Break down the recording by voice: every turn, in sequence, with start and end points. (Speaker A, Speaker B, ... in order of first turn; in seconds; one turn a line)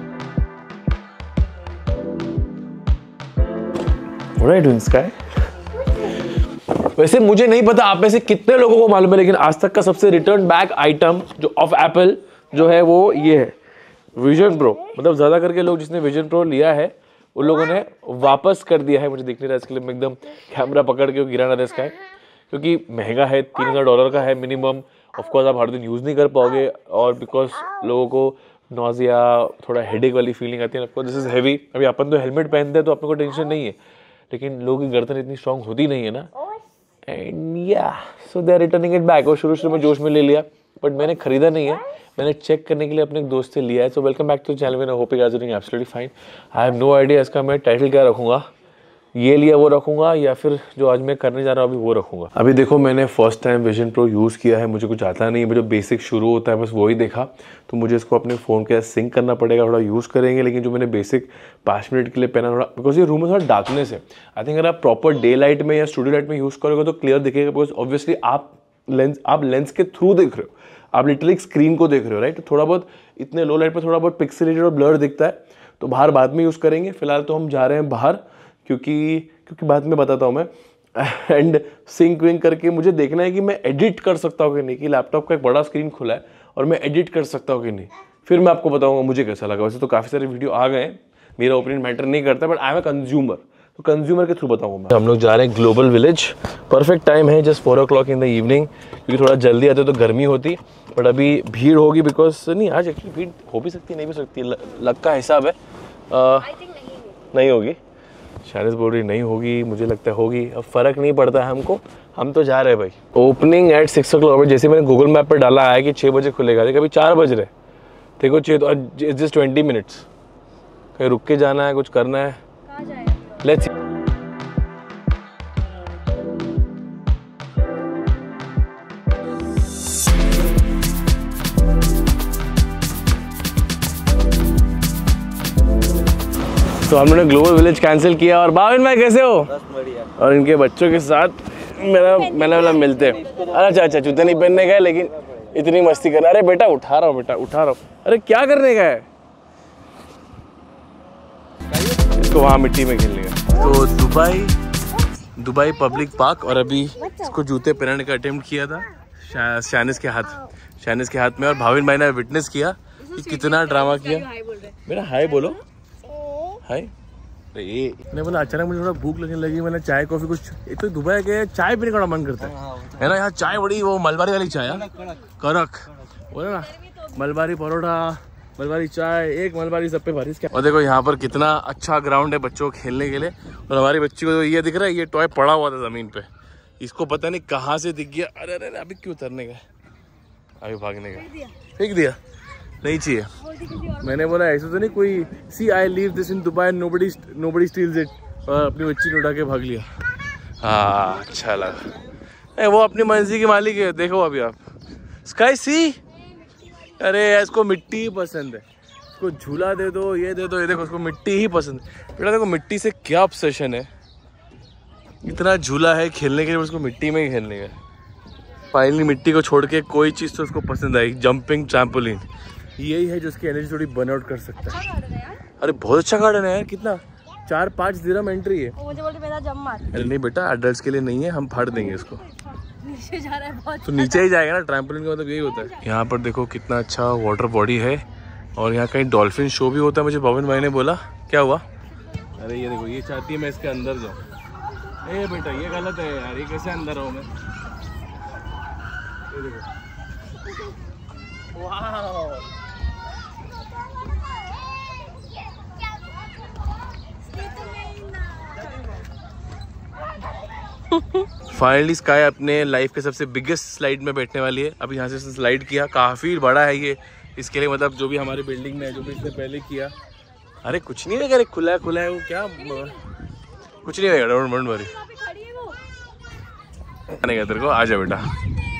Speaker A: 4.4-5.2
Speaker A: 6.7-13.6
Speaker A: 14.2-22.0
Speaker A: 22.5-33.8
Speaker A: 34.3-36.3
Speaker A: 37.1-48.5
Speaker A: 49.2-105.6
Speaker A: 106.1-106.6
Speaker B: 106.5-107.1
Speaker A: 107.3-107.8
Speaker A: 108.4-117.5
Speaker A: 118.2-120.1
Speaker A: 120.9-122.4
Speaker B: 122.7-123.4
Speaker A: 123.4-123.7
Speaker A: 136.8-149.1
Speaker A: 152.1-154.6
Speaker A: 155.3-164.3
Speaker B: 163.1-164.8
Speaker A: 164.8-165.6
Speaker A: 166.6-166.9
Speaker A: 167.5-186.3
Speaker A: 186.8-189.6
Speaker A: 190.6-192.2
Speaker A: 192.8-199.9
Speaker A: 200.6-201.9
Speaker A: 202.6-204.6
Speaker A: 205.2-206.0
Speaker A: 206.9-208.6
Speaker A: 209.2-213.9
Speaker A: 215.2-217.8
Speaker A: 218.7-222.2
Speaker A: 222.8-224.9
Speaker B: 224.9-225.4
Speaker A: 225.6-228.8
Speaker B: 228.8-229.9
Speaker A: 229.9-232.2
Speaker B: 232.7-234.2
Speaker A: 233.8-238.0
Speaker A: 238.6-241.6
Speaker A: 242.4-244.2
Speaker A: 245.0-247.3
Speaker A: 249.3-249.7
Speaker A: 251.5-252.4
Speaker A: 261.5-269.9
Speaker A: 270.6-273.0
Speaker A: 273.8-275.0
Speaker B: 275.1-275.8
Speaker A: 277.1-278.3